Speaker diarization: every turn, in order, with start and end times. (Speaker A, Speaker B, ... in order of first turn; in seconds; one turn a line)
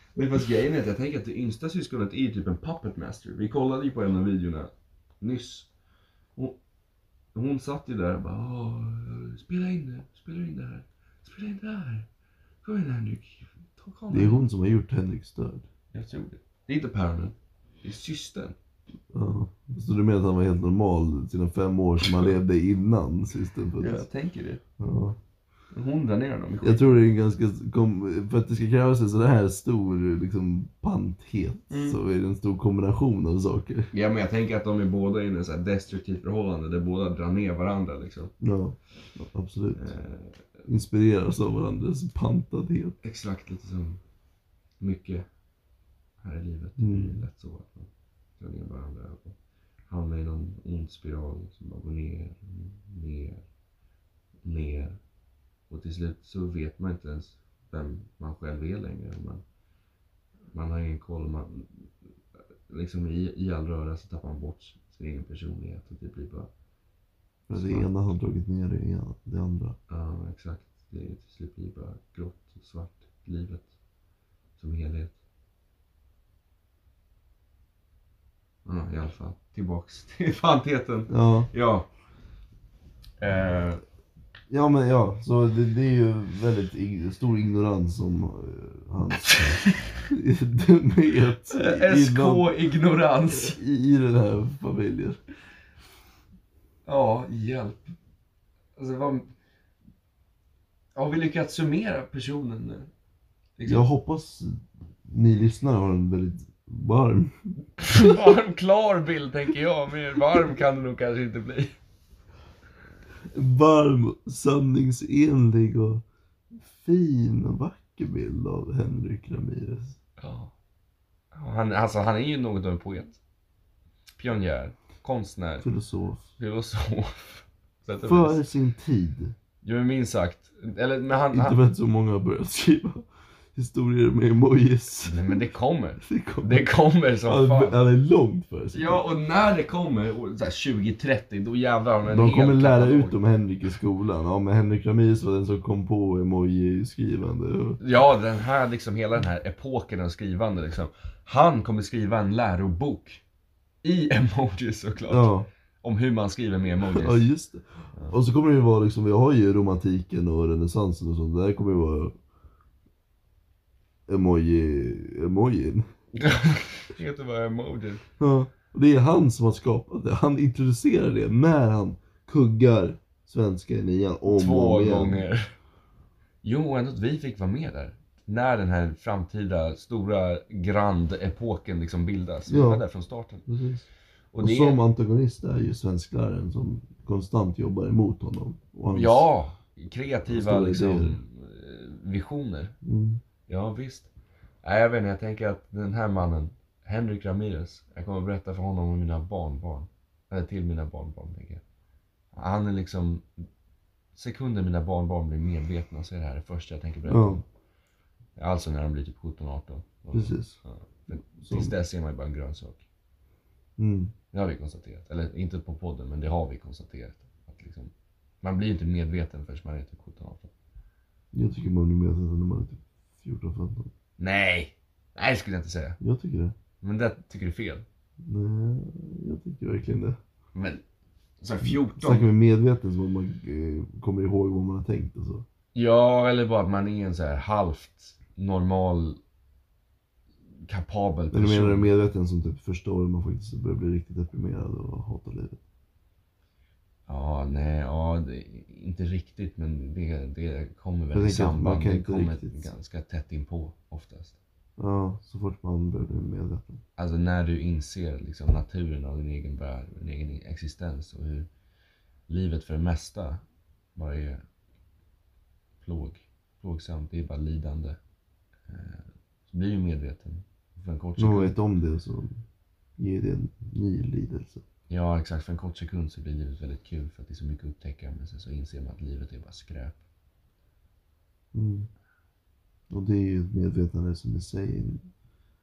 Speaker A: 0.2-5.7
Speaker A: 7.3-12.1
Speaker A: 12.6-14.5
Speaker B: 14.1-15.7
Speaker A: 15.9-18.6
Speaker B: 19.1-24.1
Speaker A: 23.8-24.6
Speaker B: 24.8-25.2
Speaker A: 25.7-26.9
Speaker B: 26.6-33.9
Speaker A: 31.7-32.0
Speaker A: 33.9-38.3
Speaker B: 38.4-39.9
Speaker A: 39.8-40.5
Speaker B: 40.7-43.0
Speaker A: 43.0-44.0
Speaker A: 44.8-45.3
Speaker A: 46.2-49.4
Speaker B: 46.8-47.2
Speaker A: 49.9-53.5
Speaker A: 54.5-55.0
Speaker A: 55.7-59.4
Speaker A: 60.5-61.9
Speaker A: 62.7-66.5
Speaker B: 67.5-69.8
Speaker A: 67.5-68.0
Speaker A: 69.9-73.7
Speaker A: 74.6-75.2
Speaker A: 78.7-81.9
Speaker B: 81.1-81.5
Speaker A: 83.2-83.8
Speaker B: 84.5-92.5
Speaker A: 89.2-89.8
Speaker A: 91.5-93.6
Speaker B: 93.3-95.2
Speaker A: 96.9-97.9
Speaker A: 98.8-99.3
Speaker A: 101.0-102.9
Speaker A: 103.6-103.9
Speaker B: 103.7-108.2
Speaker A: 107.8-111.7
Speaker B: 113.3-120.0
Speaker A: 120.2-120.5
Speaker A: 121.3-123.2
Speaker A: 124.2-125.7
Speaker B: 125.6-126.3
Speaker A: 126.4-128.4
Speaker B: 128.0-129.3
Speaker A: 129.6-131.6
Speaker B: 131.3-133.0
Speaker B: 133.6-135.4
Speaker A: 135.1-137.8
Speaker B: 136.0-136.7
Speaker B: 137.3-139.0
Speaker A: 138.7-143.2
Speaker B: 142.1-147.8
Speaker A: 147.8-153.2
Speaker A: 153.8-155.3
Speaker B: 155.1-155.5
Speaker A: 155.8-157.2
Speaker B: 156.9-162.2
Speaker B: 164.1-165.9
Speaker A: 166.2-168.0
Speaker B: 168.2-175.2
Speaker A: 174.3-175.5
Speaker A: 176.4-183.4
Speaker B: 182.5-182.8
Speaker B: 183.5-183.9
Speaker A: 184.3-184.8
Speaker B: 184.4-189.3
Speaker A: 188.9-192.8
Speaker B: 190.3-191.2
Speaker B: 192.8-193.2
Speaker A: 193.5-194.1
Speaker A: 194.6-201.6
Speaker A: 202.3-203.3
Speaker A: 204.2-207.4
Speaker B: 207.1-207.4
Speaker A: 208.4-212.8
Speaker B: 210.1-210.6
Speaker B: 211.4-211.7
Speaker B: 213.8-214.1
Speaker A: 214.3-217.9
Speaker A: 218.4-220.5
Speaker B: 221.3-223.9
Speaker A: 224.2-226.0
Speaker B: 226.0-226.6
Speaker A: 226.8-227.8
Speaker B: 228.2-230.2
Speaker A: 230.5-230.8
Speaker A: 231.4-232.3
Speaker B: 231.6-235.4
Speaker A: 235.8-239.2
Speaker A: 240.7-241.9
Speaker B: 241.3-245.6
Speaker A: 247.1-254.4
Speaker B: 251.1-252.7
Speaker B: 254.8-256.8
Speaker A: 257.0-261.5
Speaker A: 262.3-263.4
Speaker A: 264.0-264.4
Speaker A: 265.8-268.0
Speaker A: 268.7-271.6
Speaker B: 271.2-272.4
Speaker B: 273.0-274.6
Speaker A: 274.9-280.0
Speaker B: 281.5-281.9
Speaker B: 282.9-285.1